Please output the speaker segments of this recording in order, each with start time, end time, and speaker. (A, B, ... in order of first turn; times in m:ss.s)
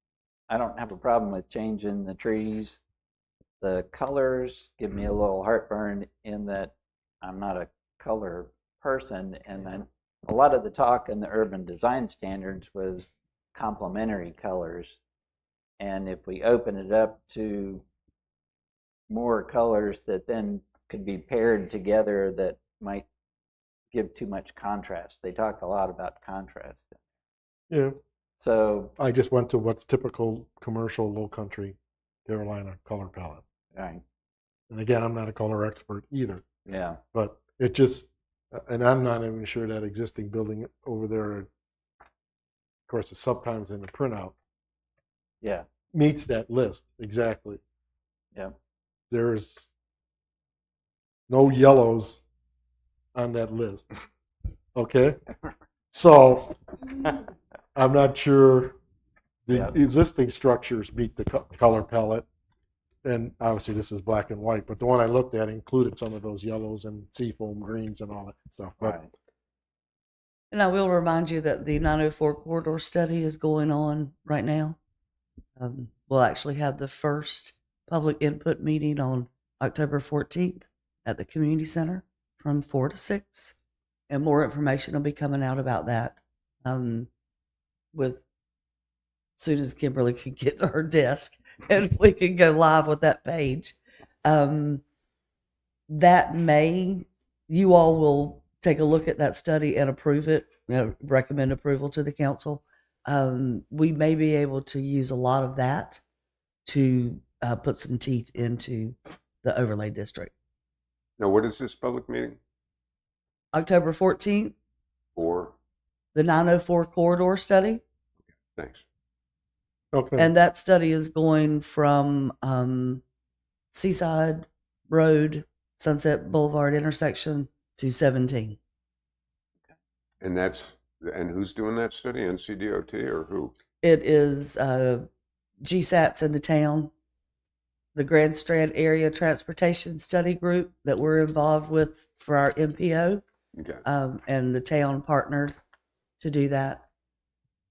0:00.5-0:02.8 A
0:03.6-0:15.0 A
0:15.8-0:17.8 A
0:19.1-0:23.1 A
0:23.9-0:27.0 A
0:27.7-0:28.0 B
0:28.4-0:28.9 A
0:29.0-0:33.4 B
0:33.7-0:34.0 A
0:34.7-0:36.4 B
0:36.7-0:37.0 A
0:37.1-0:41.5 B
0:42.9-0:44.4 B
0:45.9-0:47.6 B
0:49.1-0:49.7 B
0:51.3-0:52.2 B
0:53.2-0:53.9 B
0:54.8-0:55.2 B
0:55.9-0:56.6 B
0:57.8-0:58.8 B
0:59.5-1:02.3 B
1:03.0-1:09.1 B
1:08.8-1:09.1 A
1:10.5-1:14.8 C
1:15.6-1:23.6 C
1:24.1-1:27.1 C
1:27.9-1:28.2 C
1:29.4-1:34.8 C
1:35.9-1:46.0 C
1:46.7-1:50.3 C
1:51.2-1:52.4 D
1:53.5-1:54.6 C
1:55.2-1:55.5 D
1:56.2-1:57.8 C
1:58.6-1:58.8 D
1:59.9-2:00.3 B
2:00.2-2:03.0 C
2:03.7-2:08.6 C
2:10.2-2:13.6 D
2:13.8-2:15.1 C
2:15.7-2:16.9 C
2:18.0-2:23.2 C
2:23.6-2:23.8 D
2:23.8-2:25.6 C
2:26.2-2:26.8 C